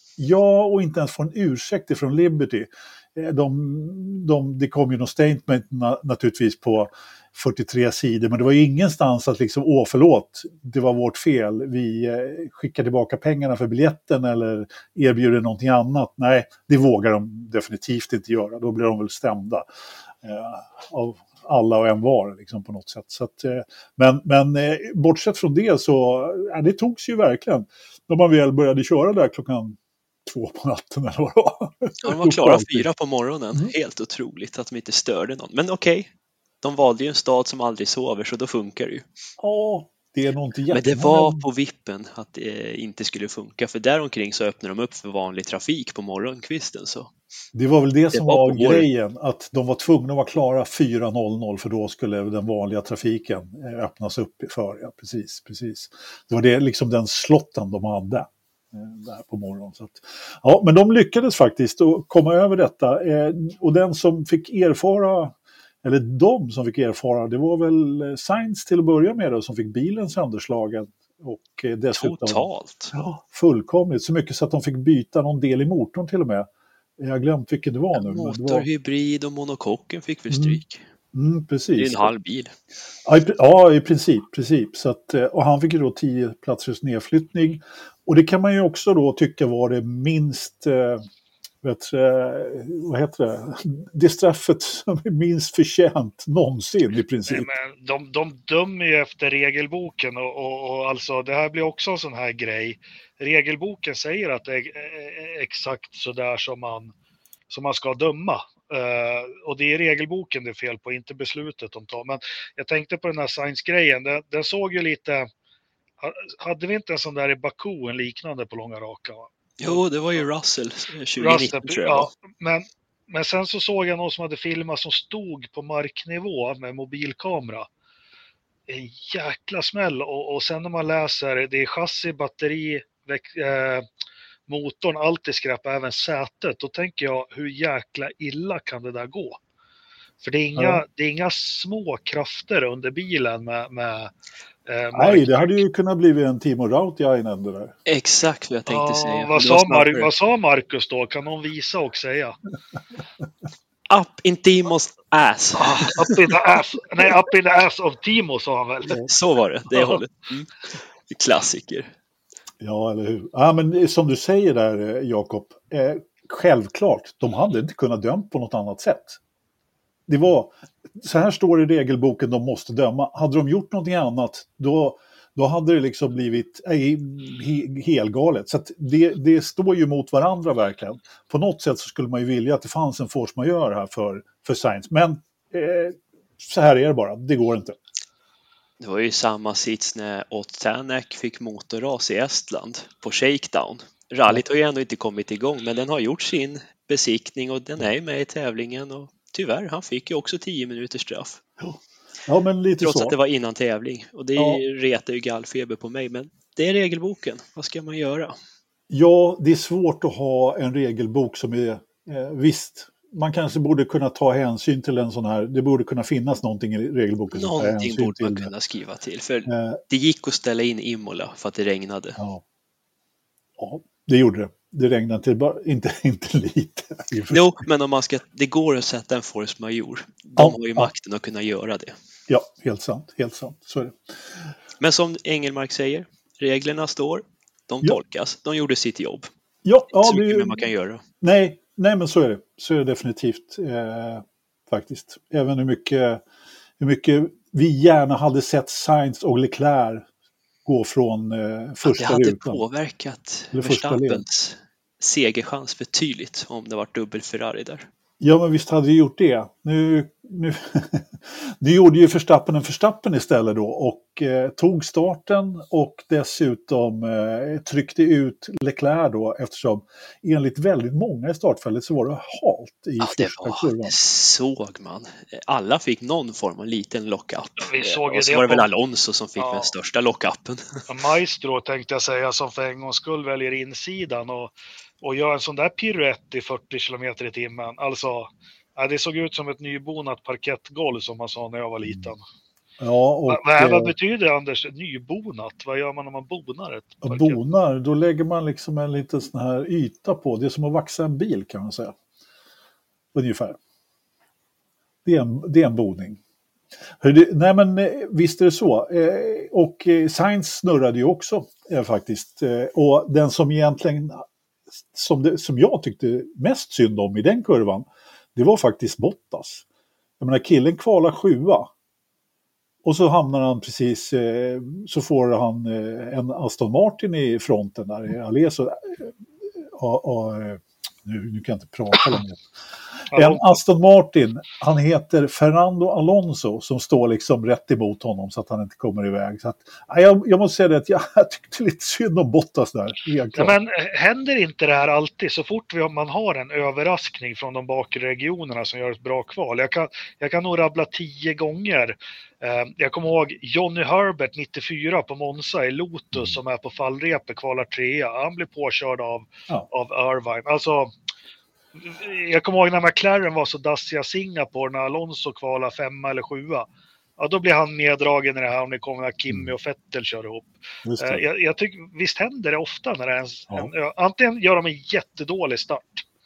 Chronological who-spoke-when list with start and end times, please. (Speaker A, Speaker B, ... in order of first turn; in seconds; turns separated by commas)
Speaker A: 0.2-19.6, Speaker A: 20.2-32.9, Speaker B: 32.0-36.1, Speaker B: 36.6-39.1, Speaker A: 39.4-41.4, Speaker B: 40.7-47.1, Speaker A: 47.5-78.7, Speaker B: 48.1-48.9, Speaker B: 71.9-72.9, Speaker B: 77.9-80.8, Speaker A: 80.3-80.6, Speaker A: 81.1-82.1, Speaker B: 81.8-82.5, Speaker A: 83.0-91.0, Speaker A: 91.6-97.5, Speaker C: 97.3-106.9, Speaker C: 107.5-115.3, Speaker C: 116.0-120.2, Speaker B: 119.6-122.1, Speaker C: 121.2-127.7, Speaker C: 128.7-133.8, Speaker C: 134.5-139.4, Speaker C: 140.2-144.1, Speaker A: 140.6-140.8, Speaker C: 144.7-145.6, Speaker A: 144.9-147.7, Speaker B: 147.8-150.1, Speaker C: 148.7-152.4, Speaker B: 153.9-156.2, Speaker C: 155.6-159.0, Speaker B: 159.0-161.9, Speaker A: 162.6-169.2, Speaker A: 170.1-187.8, Speaker B: 188.8-201.4, Speaker A: 201.6-203.2, Speaker B: 202.8-208.3, Speaker A: 204.4-204.6, Speaker A: 208.9-218.5, Speaker B: 217.3-222.2, Speaker A: 219.5-219.8, Speaker A: 222.2-222.4, Speaker A: 223.6-227.5, Speaker B: 227.3-231.9, Speaker A: 230.4-230.9, Speaker A: 232.3-234.0, Speaker B: 234.8-239.3, Speaker A: 239.6-240.7, Speaker B: 239.9-241.0, Speaker A: 241.2-246.2, Speaker A: 246.8-250.1, Speaker A: 250.6-252.6, Speaker B: 251.8-257.9, Speaker A: 253.5-254.2, Speaker A: 258.2-274.0, Speaker B: 273.0-280.8, Speaker C: 277.6-278.7, Speaker C: 279.4-279.7, Speaker C: 280.9-292.2, Speaker A: 291.8-292.1, Speaker A: 292.8-293.9, Speaker C: 293.3-297.4, Speaker A: 297.0-301.9, Speaker A: 303.1-303.6, Speaker A: 305.0-306.2, Speaker A: 307.0-314.2, Speaker A: 314.8-319.6, Speaker A: 320.2-321.7, Speaker A: 322.8-332.4, Speaker C: 333.1-333.5, Speaker A: 333.1-343.5, Speaker C: 343.3-360.9, Speaker C: 361.8-366.7, Speaker C: 367.2-376.0, Speaker A: 370.8-371.2